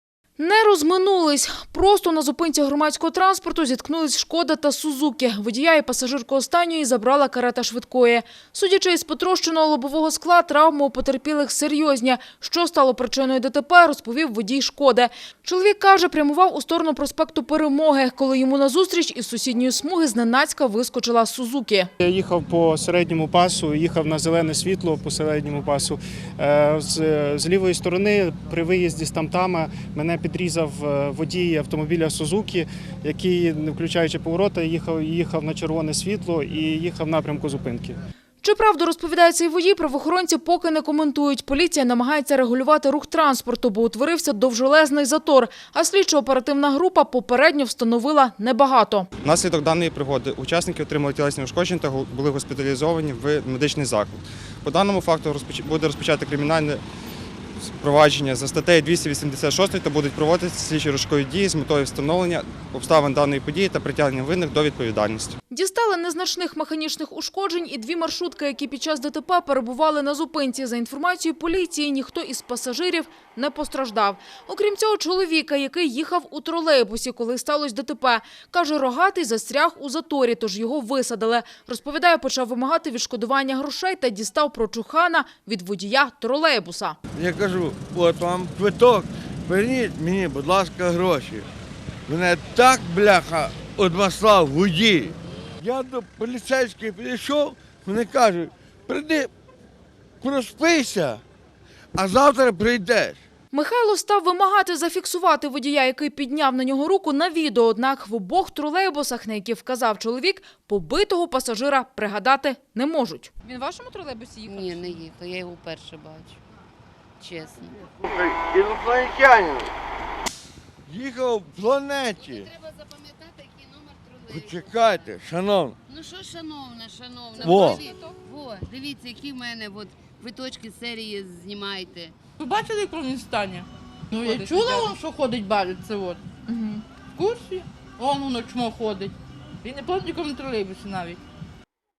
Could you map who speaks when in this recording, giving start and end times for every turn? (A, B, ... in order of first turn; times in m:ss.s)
0:00.4-0:21.9 A
0:22.0-0:38.0 B
0:38.4-0:49.1 A
0:49.2-0:56.8 C
0:57.6-1:05.4 C
1:05.5-1:27.0 A
1:27.2-1:31.5 D
1:32.1-1:39.3 D
1:40.2-1:41.2 D
1:41.9-1:43.2 D
1:43.5-1:54.8 A
1:54.4-1:56.4 E
1:57.2-1:57.9 E
1:58.0-1:59.7 D
2:00.9-2:02.5 D
2:02.1-2:05.2 E
2:04.3-2:05.7 D
2:05.9-2:12.2 E
2:07.4-2:07.8 D
2:12.4-2:16.3 F
2:14.4-2:14.7 E
2:16.5-2:16.8 A
2:17.2-2:21.2 F